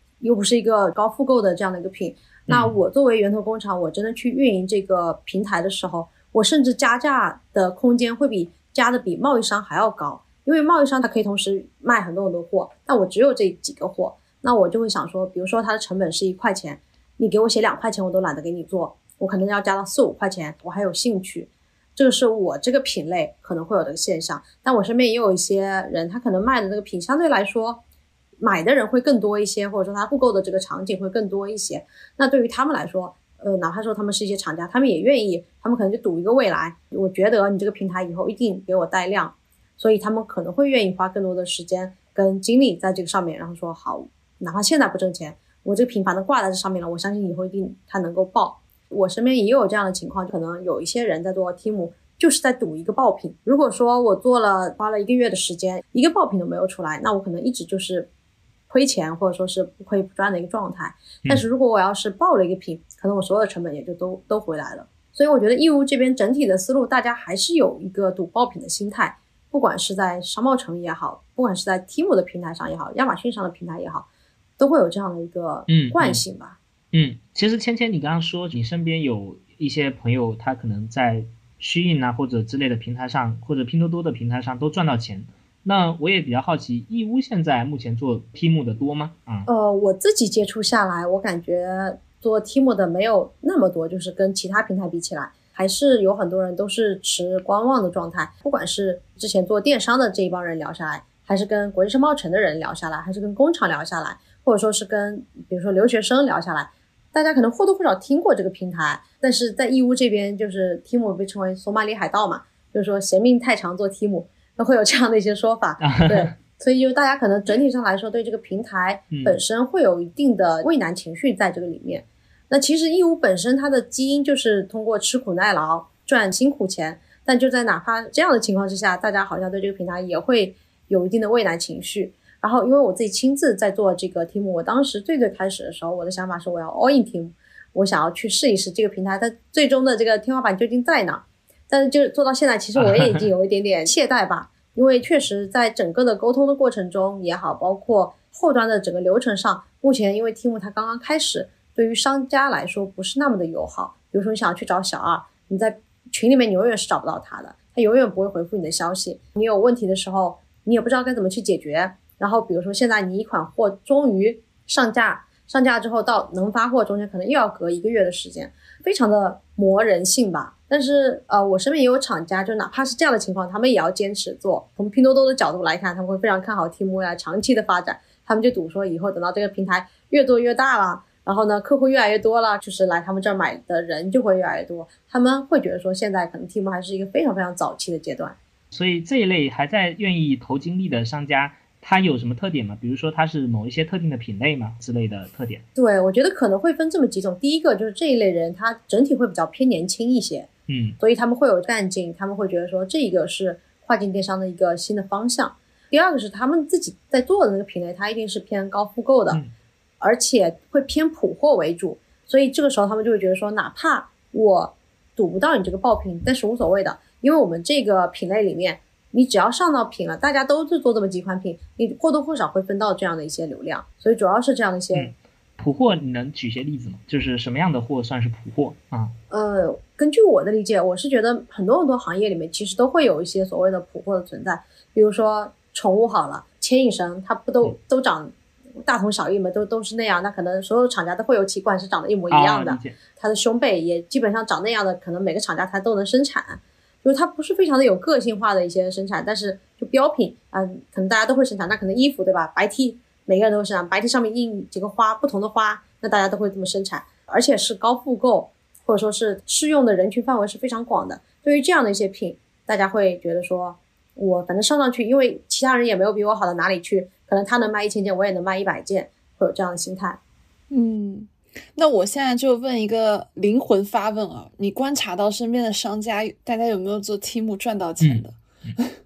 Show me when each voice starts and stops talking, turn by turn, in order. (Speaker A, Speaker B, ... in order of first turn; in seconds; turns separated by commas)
Speaker A: 0.2-27.8, Speaker B: 2.5-2.7, Speaker A: 28.4-58.1, Speaker A: 58.7-74.1, Speaker A: 74.6-76.6, Speaker B: 75.7-76.2, Speaker B: 76.9-89.5, Speaker A: 89.5-188.4, Speaker B: 115.8-116.3, Speaker B: 119.1-119.4, Speaker B: 142.8-143.3, Speaker B: 188.7-195.6, Speaker A: 195.7-200.5, Speaker B: 200.7-201.0, Speaker A: 201.0-209.4, Speaker A: 210.0-225.1, Speaker B: 224.9-229.1, Speaker A: 229.3-270.2, Speaker B: 242.3-243.0, Speaker C: 270.7-278.9